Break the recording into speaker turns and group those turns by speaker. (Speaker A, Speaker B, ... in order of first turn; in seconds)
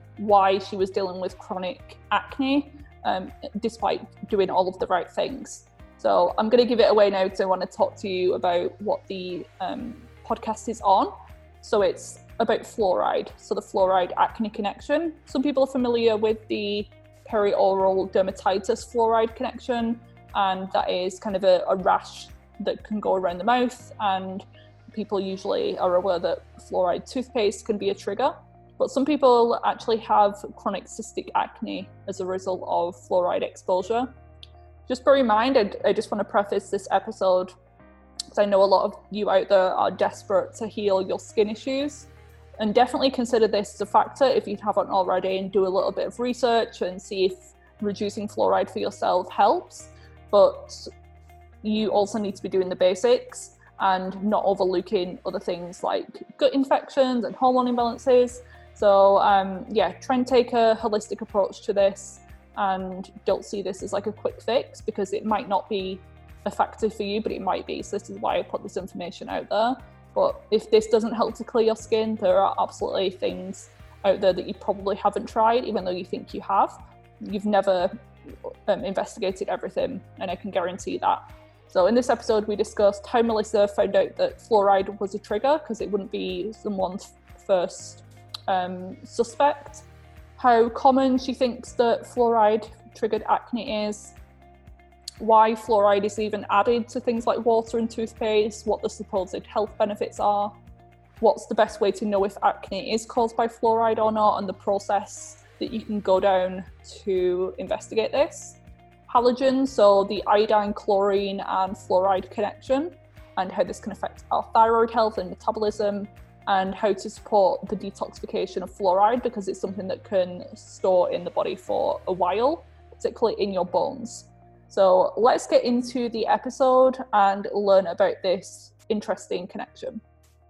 Speaker A: 0.2-34.1, 34.9-37.5, 38.3-50.9, 51.6-77.9, 78.5-89.9, 90.4-94.2, 95.2-100.5, 101.2-130.0